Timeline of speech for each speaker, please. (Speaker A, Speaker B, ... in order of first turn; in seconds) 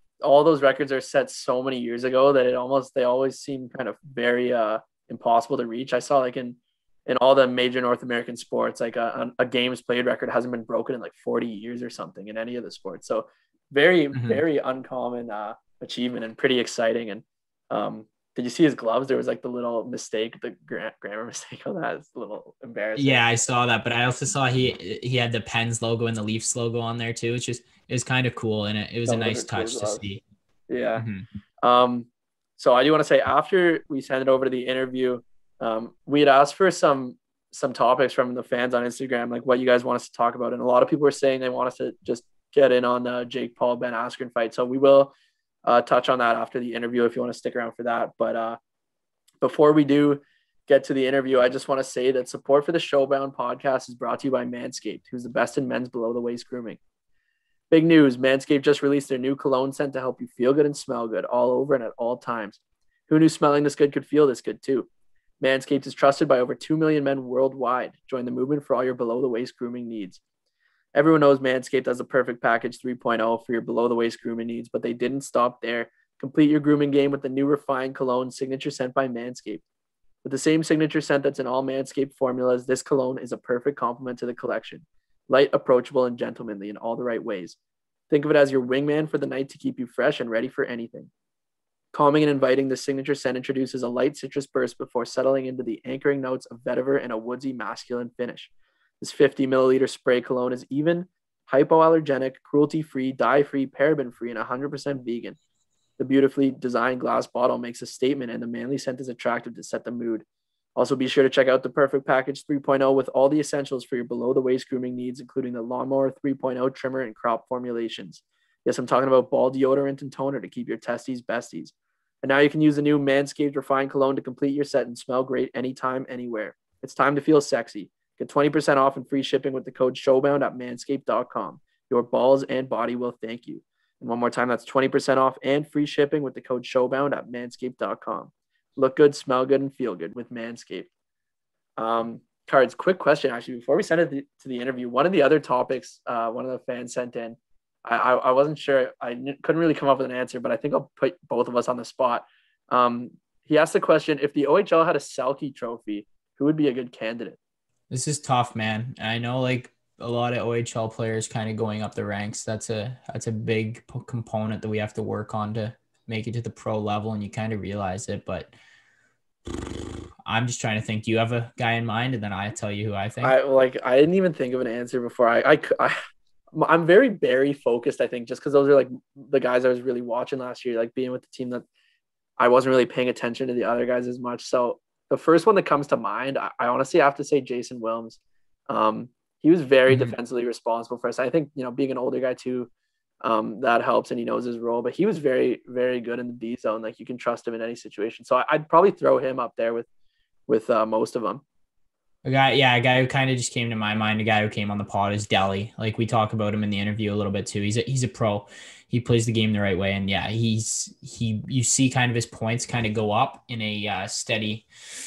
Speaker A: 0.2-23.3, 29.1-30.0, 30.7-31.0, 31.6-45.1, 45.6-48.6, 49.4-56.8, 57.7-64.9, 65.4-70.2, 70.9-79.6, 80.2-87.6, 88.1-91.1, 91.9-105.4, 106.0-110.2, 110.8-140.9, 141.8-157.4, 173.2-175.9, 176.5-181.6, 182.4-192.7, 193.2-199.9, 200.5-201.4
Speaker B: 14.1-14.4, 23.0-30.2, 30.9-31.2, 157.9-168.5, 170.2-173.3, 189.9-190.1, 202.2-214.7